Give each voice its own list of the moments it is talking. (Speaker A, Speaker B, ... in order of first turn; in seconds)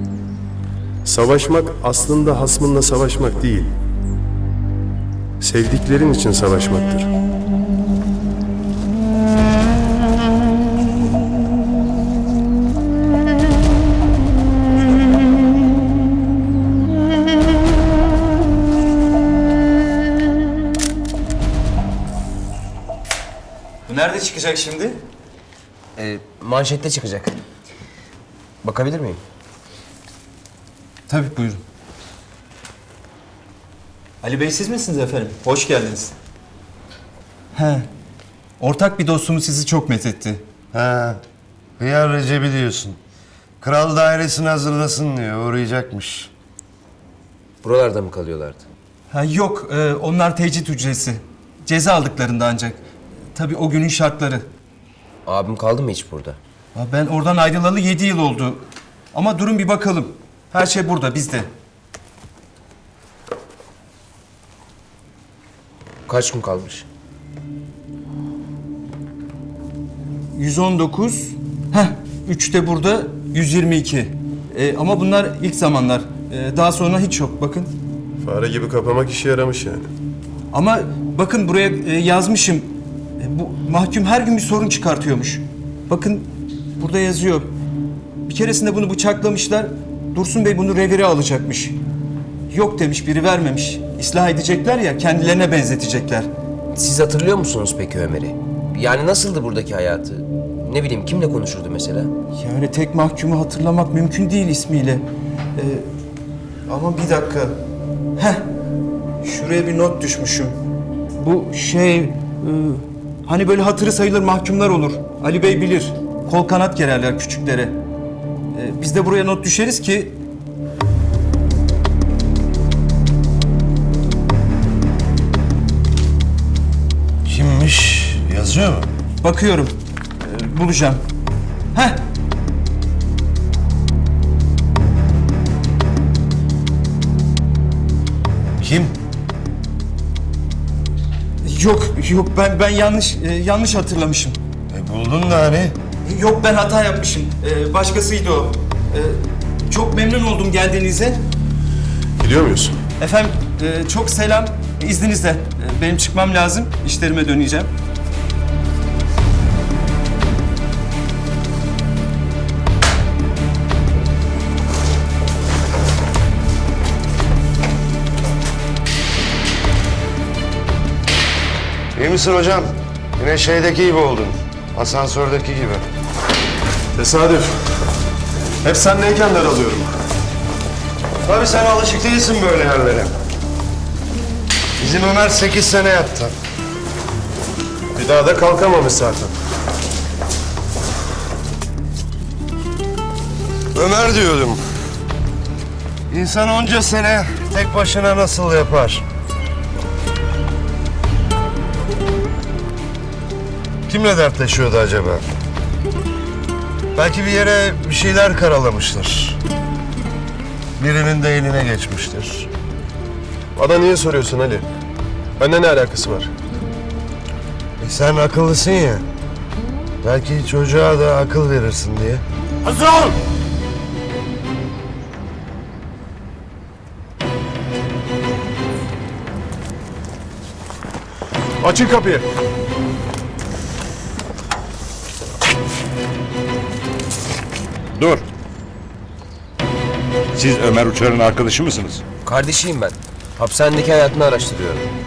Speaker A: 1.1-3.7, 5.4-7.1, 78.2-79.9, 152.2-152.8, 177.0-177.6, 178.6-179.9, 188.0-189.3, 213.6-214.7, 215.4-216.3, 222.7-223.1, 231.6-232.2
Speaker B: 23.9-25.0, 31.1-31.6, 34.2-36.1, 37.5-37.9, 38.6-40.4, 49.1-52.8, 53.3-54.5, 56.8-61.5, 70.3-77.8, 80.5-87.5, 88.3-91.8, 92.5-96.3, 102.4-105.0, 105.6-105.9, 106.7-107.6, 108.2-108.5, 109.2-110.6, 111.2-117.8, 118.5-120.2, 129.2-131.0, 131.7-132.0, 141.4-144.4, 146.1-151.2, 153.0-157.7
Speaker C: 26.0-27.4, 28.6-29.2, 47.6-48.6, 55.3-56.4, 66.1-66.9, 96.7-102.1, 242.2-244.9
Speaker D: 40.7-41.2, 41.8-43.0, 43.6-46.3, 127.2-128.9, 138.6-138.9, 144.7-145.8, 171.9-175.8, 181.2-183.1, 184.8-186.3, 193.7-194.6, 196.1-199.1, 203.9-205.3, 206.9-209.4, 210.8-212.5, 217.8-219.1, 220.0-222.2
Speaker E: 237.9-238.2, 240.3-242.0